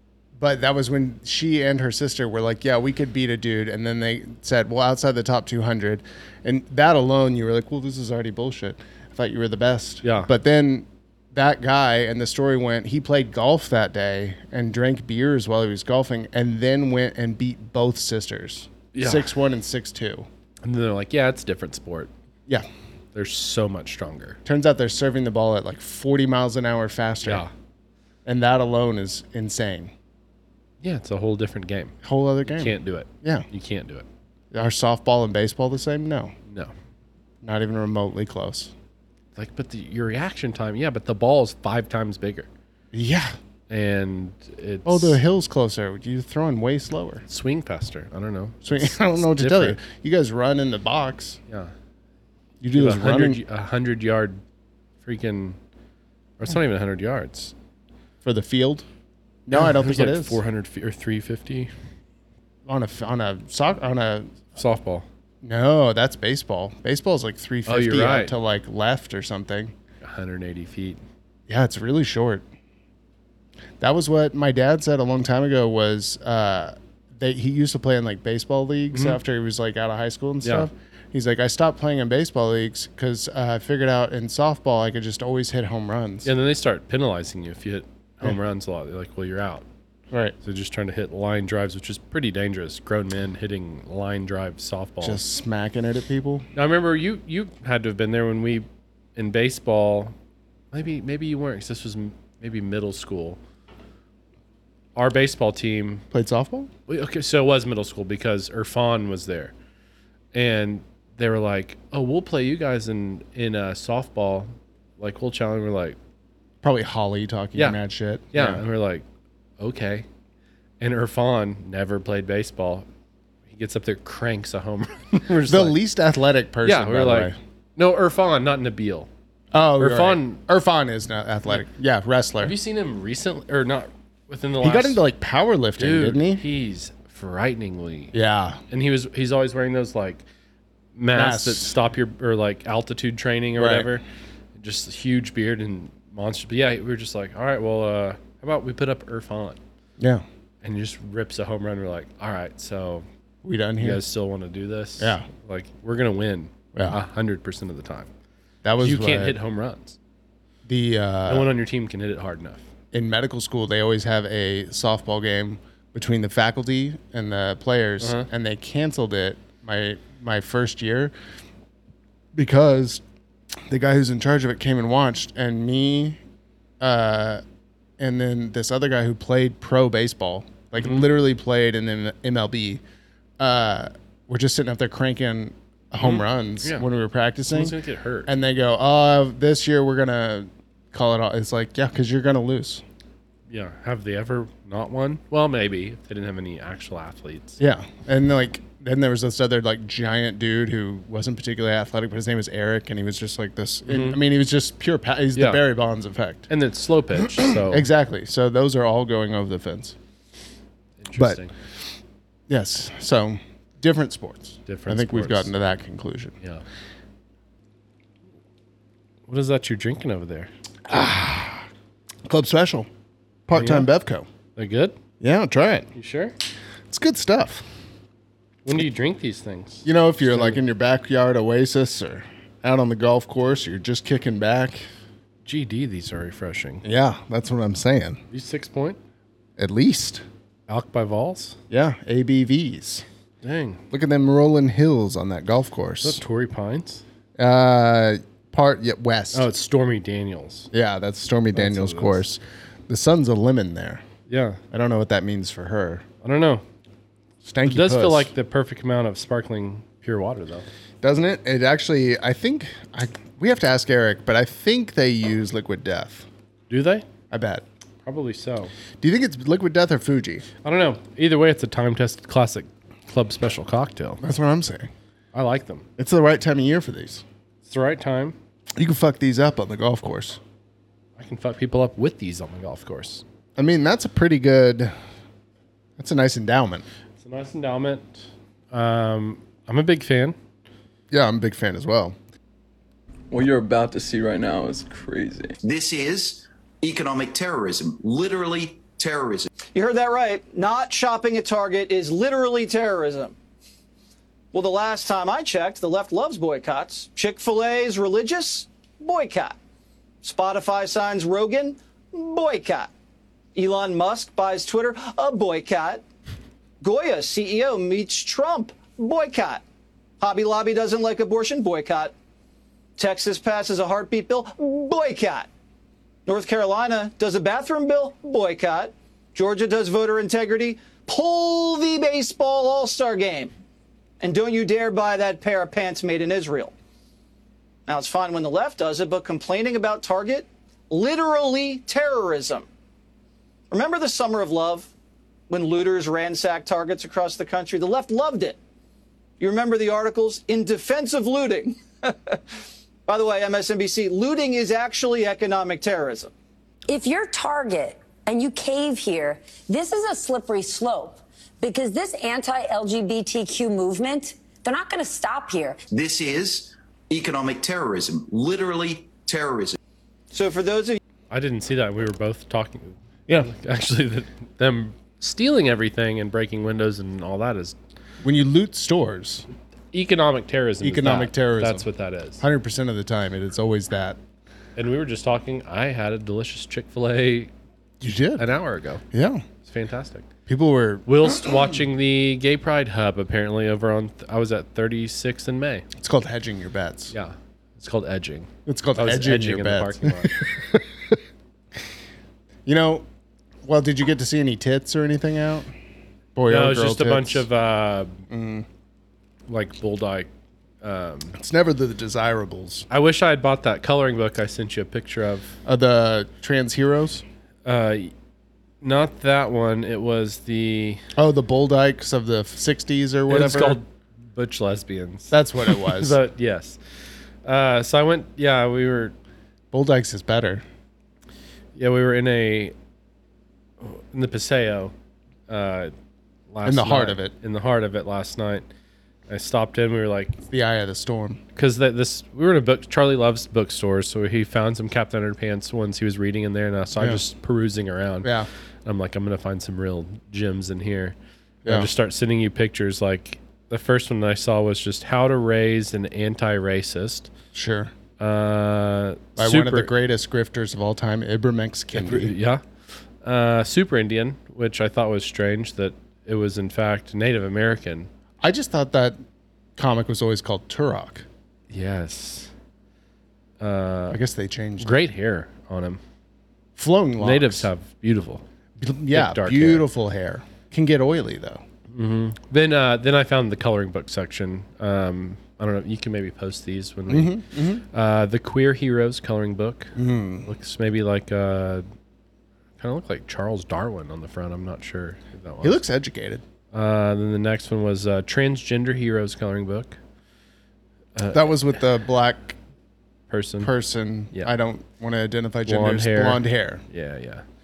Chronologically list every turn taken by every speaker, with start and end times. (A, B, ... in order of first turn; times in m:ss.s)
0:00.4-0:20.3 A
0:10.0-0:10.3 B
0:18.9-0:19.3 B
0:20.6-0:22.1 B
0:23.1-0:24.4 B
0:24.4-0:27.5 A
0:27.2-0:27.5 B
0:28.2-0:29.9 A
0:30.8-0:34.1 B
0:32.0-0:33.4 A
0:34.5-0:36.3 A
0:36.5-0:36.7 B
0:37.4-0:38.7 A
0:39.4-0:42.5 B
0:42.9-0:43.4 A
0:43.7-0:45.2 B
0:44.8-0:47.2 A
0:47.3-0:49.8 B
0:48.6-0:51.4 A
0:52.6-0:53.4 A
0:52.7-0:54.4 B
0:55.0-0:55.6 B
0:56.4-0:57.5 B
0:58.2-0:58.8 A
0:59.5-1:00.4 A
0:59.5-1:01.7 B
1:02.6-1:04.4 A
1:04.5-1:05.0 B
1:05.4-1:09.7 A
1:07.6-1:08.3 B
1:10.0-1:11.0 B
1:11.5-1:12.4 A
1:13.8-1:26.3 A
1:18.9-1:19.2 B
1:20.4-1:20.7 B
1:26.2-1:29.6 B
1:30.1-1:30.4 A
1:30.4-1:35.2 B
1:35.0-1:36.4 A
1:36.5-1:40.1 B
1:40.7-1:43.4 B
1:45.0-1:46.0 B
1:46.1-1:46.7 A
1:46.9-1:49.5 B
1:50.3-1:56.0 B
1:56.6-1:58.6 A
1:57.6-1:57.8 B
1:58.3-1:59.0 B
1:59.6-2:00.0 B
2:00.8-2:02.8 B
2:03.5-2:05.8 B
2:05.4-2:07.4 A
2:06.6-2:09.1 B
2:09.5-2:12.6 A
2:09.8-2:10.4 B
2:12.4-2:15.0 B
2:14.6-2:16.4 A
2:15.8-2:18.2 B
2:18.1-2:18.6 A
2:18.7-2:20.2 B
2:20.9-2:24.0 B
2:21.1-2:21.8 A
2:23.6-2:24.0 A
2:24.6-2:29.6 B
2:30.0-2:30.2 A
2:30.6-2:33.0 B
2:33.4-2:34.0 A
2:33.8-2:38.1 B
2:35.0-2:35.3 A
2:36.7-2:37.0 A
2:38.6-2:39.4 A
2:38.8-2:40.0 B
2:40.6-2:41.5 A
2:41.3-2:42.6 B
2:42.9-2:51.1 A
2:48.0-2:48.3 B
2:52.3-2:53.0 A
2:53.7-2:56.2 A
2:56.8-2:57.4 A
2:58.0-3:02.8 A
3:00.8-3:01.0 B
3:03.4-3:12.8 A
3:06.0-3:06.9 B
3:07.5-3:08.3 B
3:13.5-3:17.6 B
3:17.6-3:26.5 A
3:23.8-3:24.2 B
3:25.4-3:25.6 B
3:26.5-3:27.9 B
3:27.2-3:30.0 A
3:31.0-3:31.5 B
3:31.2-3:31.4 A
3:32.5-3:36.4 A
3:34.6-3:35.5 B
3:39.3-3:40.5 B
3:40.9-3:41.7 A
3:42.2-3:42.9 A
3:43.5-3:44.3 A
3:43.5-3:43.9 B
3:44.6-3:45.0 B
3:45.2-3:45.9 A
3:45.9-3:46.3 B
3:46.9-3:47.6 A
3:48.6-3:50.6 B
3:49.8-3:54.9 A
3:55.4-3:56.8 B
3:56.8-3:58.2 A
3:58.3-3:59.0 B
3:59.6-4:00.2 A
4:00.7-4:01.6 B
4:01.7-4:03.0 A
4:03.4-4:03.8 B
4:03.9-4:06.2 A
4:06.0-4:07.0 B
4:07.4-4:09.5 A
4:09.3-4:10.7 B
4:10.7-4:14.0 A
4:11.5-4:12.2 B
4:14.3-4:14.6 B
4:14.7-4:16.0 A
4:16.2-4:16.6 B
4:17.4-4:18.3 A
4:17.6-4:20.7 B
4:21.0-4:26.3 A
4:26.7-4:27.0 B
4:27.3-4:27.6 A
4:28.0-4:28.7 B
4:29.0-4:30.5 A
4:30.6-4:34.2 B
4:34.2-4:34.9 A
4:35.3-4:35.8 B
4:36.0-4:37.2 A
4:37.6-4:38.4 B
4:38.8-4:40.4 A
4:41.2-4:43.2 B
4:43.6-4:44.9 A
4:46.0-4:46.8 A
4:47.2-4:50.4 B
4:51.1-4:52.2 A
4:53.3-4:55.6 C
4:55.6-4:59.5 D
4:59.7-5:03.3 E
5:04.5-5:09.5 E
5:10.2-5:12.9 E
5:13.5-5:16.0 E
5:16.8-5:19.6 E
5:20.2-5:22.1 E
5:23.0-5:25.5 E
5:26.3-5:33.5 E
5:34.2-5:36.7 E
5:37.9-5:42.6 E
5:43.7-5:44.9 E
5:45.5-5:48.6 E
5:49.4-5:52.4 E
5:53.1-5:56.3 E
5:56.9-6:05.8 F
6:05.9-6:09.8 D
6:10.3-6:11.0 E
6:11.3-6:17.8 B
6:18.2-6:19.5 A
6:19.9-6:22.4 B
6:20.8-6:21.9 A
6:22.4-6:24.2 A
6:24.8-6:27.5 B
6:28.0-6:28.4 A
6:28.4-6:29.0 B
6:29.1-6:29.4 A
6:29.6-6:30.2 B
6:30.5-6:31.8 A
6:31.0-6:35.8 B
6:36.0-6:37.1 A
6:37.1-6:40.4 B
6:38.6-6:41.2 A
6:42.6-6:43.0 A
6:43.6-6:45.7 A
6:46.3-6:47.5 A
6:46.5-6:48.2 B
6:48.3-6:48.6 A
6:49.5-6:50.3 B
6:50.8-6:51.4 B
6:51.3-6:52.9 A
6:52.9-6:55.5 B
6:55.6-6:57.2 A
6:57.6-6:58.1 B
6:58.8-7:01.0 B
7:01.2-7:03.8 A
7:03.3-7:06.8 B
7:05.3-7:06.2 A
7:07.4-7:09.1 B
7:09.7-7:10.6 A
7:11.7-7:12.7 B
7:13.8-7:14.9 B
7:15.5-7:15.9 B
7:16.5-7:18.6 B
7:16.6-7:17.3 A
7:19.3-7:20.4 B
7:20.5-7:21.4 A
7:21.5-7:28.3 B
7:27.0-7:27.2 A
7:28.2-7:28.5 A
7:28.8-7:31.1 B
7:31.6-7:31.9 A
7:31.6-7:37.3 B
7:37.5-7:37.9 A
7:38.2-7:39.9 B
7:39.4-7:42.3 A
7:41.9-7:42.6 B
7:43.2-7:48.1 B
7:48.4-7:49.2 A
7:49.8-7:51.2 A
7:51.7-7:52.5 B
7:53.6-7:54.2 B
7:54.1-7:55.0 A
7:54.8-7:56.0 B
7:56.8-7:57.7 A
7:57.2-7:58.4 B
7:58.8-8:01.6 A
7:59.1-7:59.9 B
8:01.9-8:11.8 B
8:07.1-8:07.8 A
8:10.0-8:10.5 A
8:12.8-8:15.8 B
8:15.6-8:16.4 A
8:16.7-8:20.0 B
8:21.1-8:21.6 B
8:21.3-8:22.6 A
8:23.3-8:23.7 B
8:23.6-8:26.8 A
8:25.6-8:27.4 B